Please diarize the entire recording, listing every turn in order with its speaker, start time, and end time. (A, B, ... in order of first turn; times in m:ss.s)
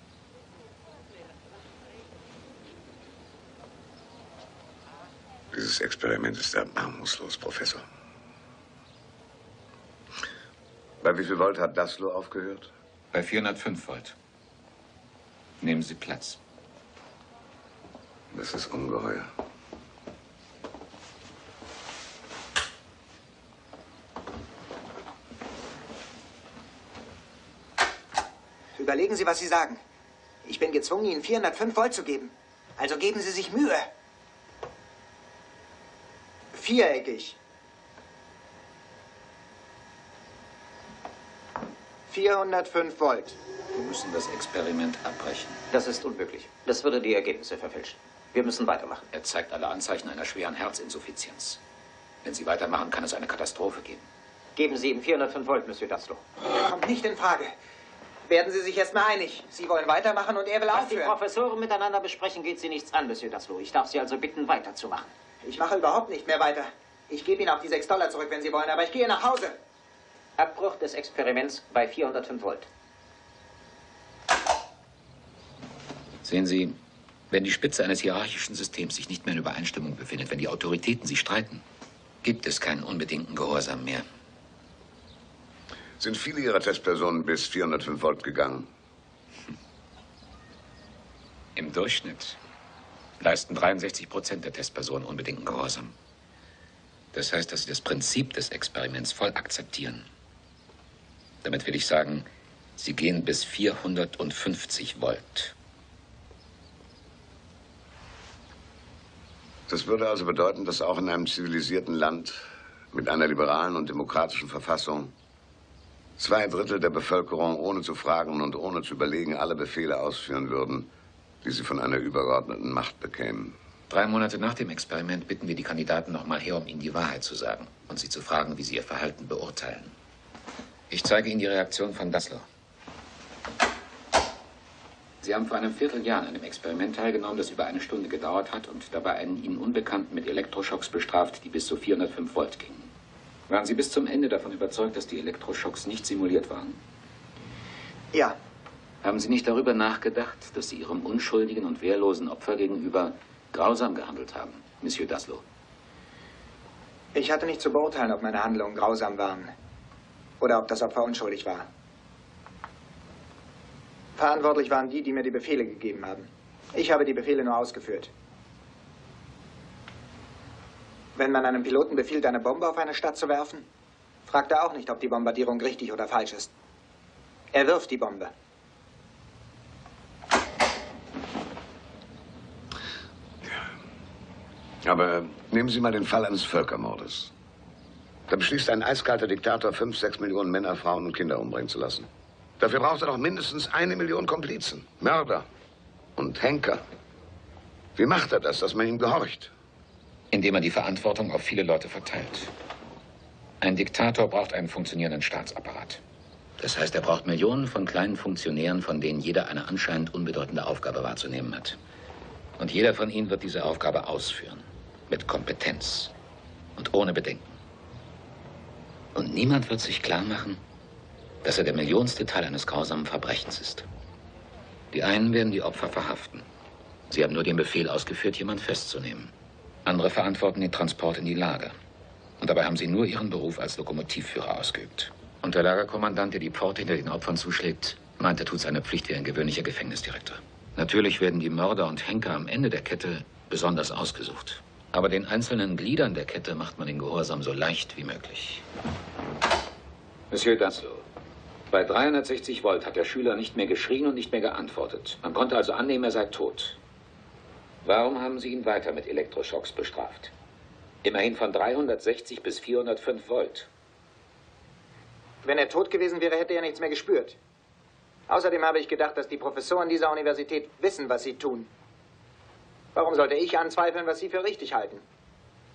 0:05.5-0:07.8 A
0:11.0-0:12.7 A
0:13.1-0:14.2 B
0:15.6-0:16.4 B
0:18.3-0:19.3 A
0:28.8-0:29.8 C
0:30.4-0:33.9 C
0:36.5-0:37.4 C
0:42.1-0:43.4 C
0:43.7-0:45.6 B
0:45.7-0:49.0 D
0:49.1-0:51.6 B
0:52.2-0:54.0 B
0:54.6-0:56.2 D
0:56.6-0:57.5 C
0:58.3-1:01.2 C
1:00.8-1:05.1 D
1:05.4-1:09.6 C
1:10.4-1:12.7 D
1:16.2-1:16.8 B
1:17.3-1:21.6 B
1:22.2-1:24.0 B
1:26.0-1:28.7 A
1:31.6-1:32.4 B
1:33.2-1:35.9 B
1:37.1-1:40.1 B
1:41.4-1:42.3 B
1:42.8-1:45.6 B
1:49.7-1:52.4 A
1:52.9-1:55.1 A
1:56.2-2:00.9 A
2:01.4-2:03.6 A
2:03.9-2:09.9 B
2:10.9-2:12.4 B
2:15.2-2:22.9 B
2:23.5-2:26.8 B
2:29.0-2:35.4 B
2:37.1-2:39.5 C
2:40.4-2:41.7 C
2:44.2-2:48.1 C
2:51.2-2:53.7 C
2:54.3-2:56.5 C
2:57.5-2:58.3 C
3:04.8-3:07.3 A
3:08.3-3:12.1 A
3:12.6-3:15.5 A
3:16.2-3:16.8 A
3:18.0-3:19.5 A
3:20.3-3:22.5 B
3:23.6-3:26.0 B
3:26.6-3:31.8 B
3:32.6-3:36.1 B
3:36.8-3:37.6 B
3:39.2-3:40.6 B
3:41.4-3:43.9 B
3:44.9-3:46.4 B
3:47.1-3:49.3 B
3:49.8-3:51.7 B
3:52.4-4:08.6 B
4:10.3-4:11.0 B
4:11.7-4:16.8 B
4:17.8-4:20.3 B
4:21.0-4:23.7 B
4:25.4-4:27.4 C
4:28.3-4:31.7 C
4:33.0-4:35.0 C